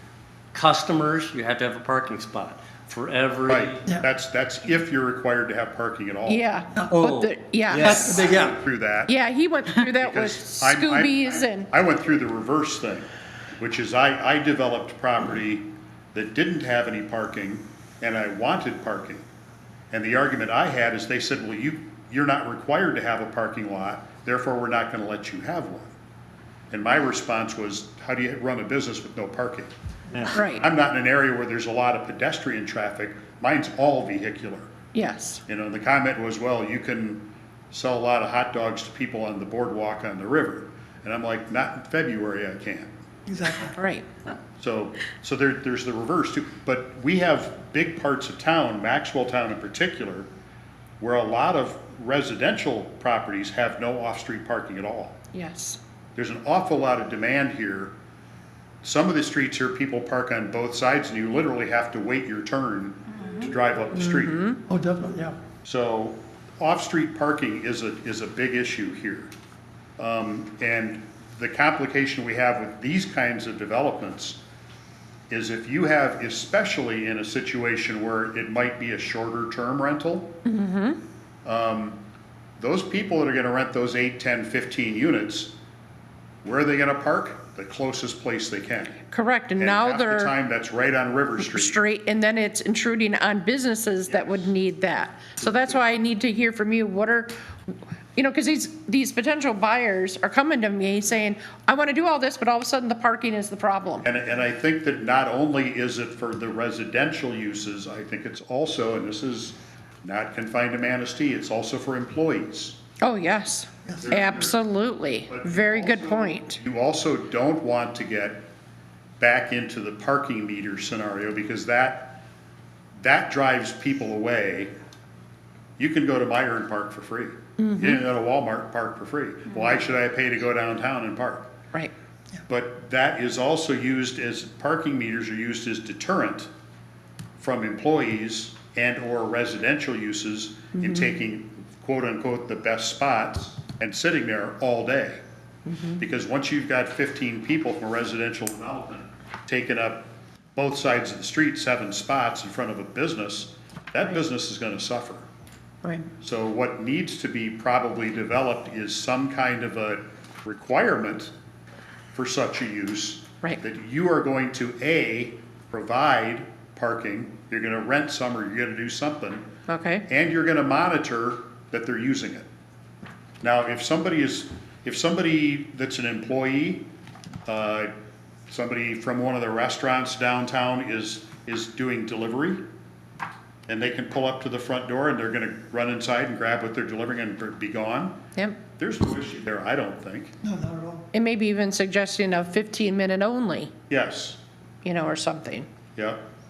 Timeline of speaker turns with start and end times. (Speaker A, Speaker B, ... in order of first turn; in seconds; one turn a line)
Speaker A: 0.5-3.8
Speaker B: 3.5-6.5
Speaker C: 6.2-8.3
Speaker A: 6.9-8.4
Speaker D: 7.8-8.6
Speaker B: 8.4-9.1
Speaker C: 9.1-11.7
Speaker B: 10.0-19.2
Speaker B: 19.9-25.9
Speaker B: 26.7-29.7
Speaker C: 30.3-30.6
Speaker B: 30.3-34.7
Speaker C: 34.9-35.4
Speaker B: 35.5-42.9
Speaker D: 43.3-43.7
Speaker C: 43.7-44.0
Speaker B: 44.6-50.3
Speaker B: 51.0-55.2
Speaker C: 55.3-55.8
Speaker B: 56.1-57.9
Speaker B: 58.8-64.5
Speaker C: 63.9-64.6
Speaker D: 64.7-65.4
Speaker B: 65.6-69.3
Speaker B: 70.0-74.4
Speaker B: 75.3-80.3
Speaker C: 80.5-81.0
Speaker B: 81.4-82.0
Speaker B: 82.6-85.5
Speaker B: 86.4-89.0
Speaker C: 89.1-90.3
Speaker B: 89.6-91.8
Speaker C: 91.4-97.3
Speaker B: 94.1-94.5
Speaker B: 95.4-95.7
Speaker C: 98.2-104.0
Speaker B: 104.0-112.8
Speaker C: 113.0-116.6
Speaker B: 114.0-114.6
Speaker B: 115.2-118.4
Speaker B: 119.2-122.2
Speaker B: 123.0-124.7
Speaker B: 125.8-131.5
Speaker C: 127.6-128.0
Speaker B: 132.5-136.5
Speaker B: 137.4-145.2
Speaker C: 140.8-141.1
Speaker C: 145.7-146.0
Speaker B: 146.0-155.2
Speaker C: 155.8-156.1
Speaker B: 156.2-161.3
Speaker B: 162.1-169.5
Speaker C: 169.7-170.0
Speaker B: 170.1-172.4
Speaker B: 173.4-176.8
Speaker B: 177.4-177.9
Speaker B: 178.5-182.6
Speaker B: 183.7-188.2
Speaker C: 188.3-188.6
Speaker B: 188.7-190.3
Speaker D: 190.4-191.1
Speaker C: 191.1-193.7
Speaker B: 193.9-194.4
Speaker C: 194.8-195.7
Speaker B: 195.9-196.2